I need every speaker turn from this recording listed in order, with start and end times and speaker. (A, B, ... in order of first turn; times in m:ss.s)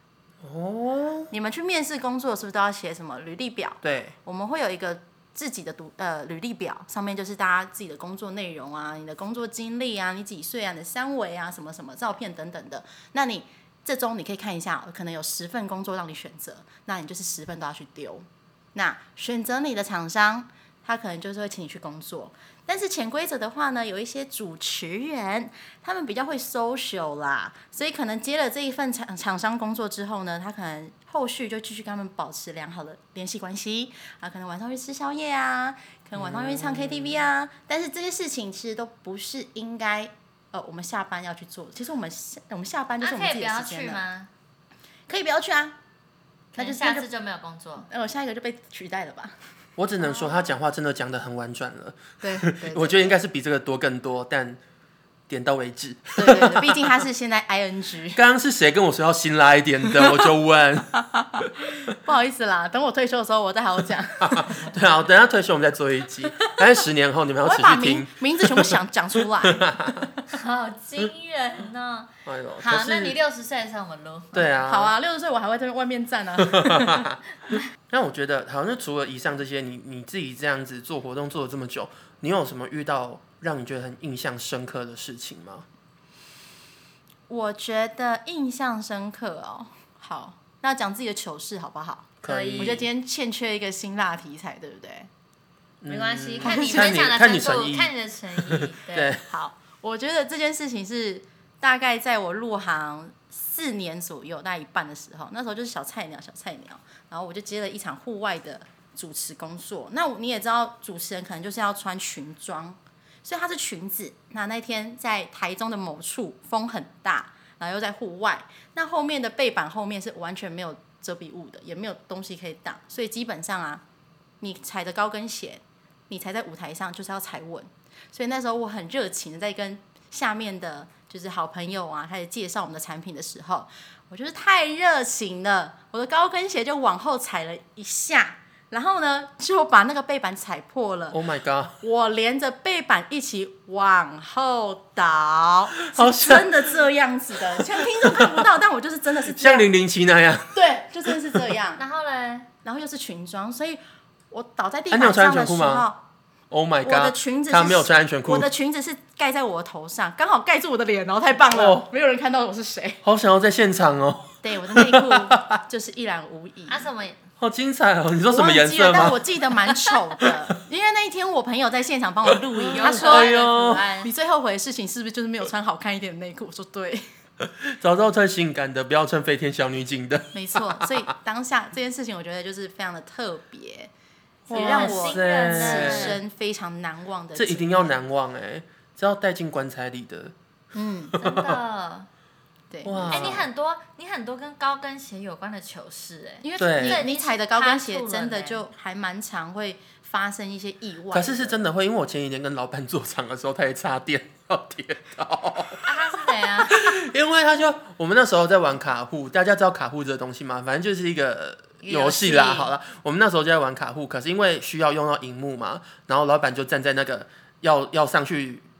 0:00.4-0:01.3 A
0:01.3-0:44.0 B
0:03.8-0:04.1 A
0:36.2-0:37.2 A
0:43.0-0:44.3 C
0:45.1-0:45.8 B
0:46.5-0:47.1 B
0:46.6-0:47.9 C
0:47.9-0:49.4 B
0:49.8-0:54.6 A
0:52.2-0:53.1 B
0:55.3-0:56.9 A
0:56.2-0:58.2 B
0:58.1-1:01.5 A
1:01.2-1:04.7 B
1:04.2-1:08.8 A
1:07.4-1:10.1 B
1:09.4-1:10.1 A
1:10.3-1:14.5 C
1:12.2-1:13.2 A
1:14.3-1:14.9 A
1:14.6-1:17.0 B
1:16.4-1:17.2 A
1:17.9-1:25.6 A
1:27.3-1:35.1 B
1:32.2-1:32.9 A
1:32.2-1:32.8 C
1:35.8-1:39.2 A
1:35.9-1:39.1 C
1:36.4-1:36.9 B
1:39.3-2:03.8 B
2:04.4-2:21.2 B
2:21.1-2:21.8 A
2:21.8-2:29.7 B
2:25.9-2:26.7 A
2:27.5-2:28.4 A
2:29.3-2:30.6 A
2:30.5-2:31.8 B
2:31.1-2:31.4 A
2:31.8-2:32.5 C
2:32.6-2:33.8 B
2:34.3-2:36.0 B
2:34.9-2:35.9 A
2:36.5-2:38.5 A
2:36.8-2:43.0 B
2:41.5-2:41.9 A
2:43.0-2:45.5 A
2:44.4-2:46.9 B
2:46.7-2:47.2 C
2:47.4-2:49.2 A
2:48.3-2:57.0 B
2:52.7-2:53.9 A
2:52.7-2:54.1 C
2:57.4-3:01.0 A
3:00.3-3:03.9 B
3:04.5-3:06.2 A
3:04.5-3:07.9 B
3:04.5-3:06.2 C
3:07.4-3:10.4 A
3:10.7-3:11.2 B
3:11.2-3:11.6 A
3:11.2-3:12.1 C
3:12.7-3:13.4 B
3:12.8-3:13.5 A
3:13.0-3:18.6 C
3:16.4-3:21.6 B
3:16.6-3:17.0 A
3:21.1-3:26.0 A
3:25.9-3:27.0 C
3:26.7-3:38.6 A
3:31.8-3:32.7 C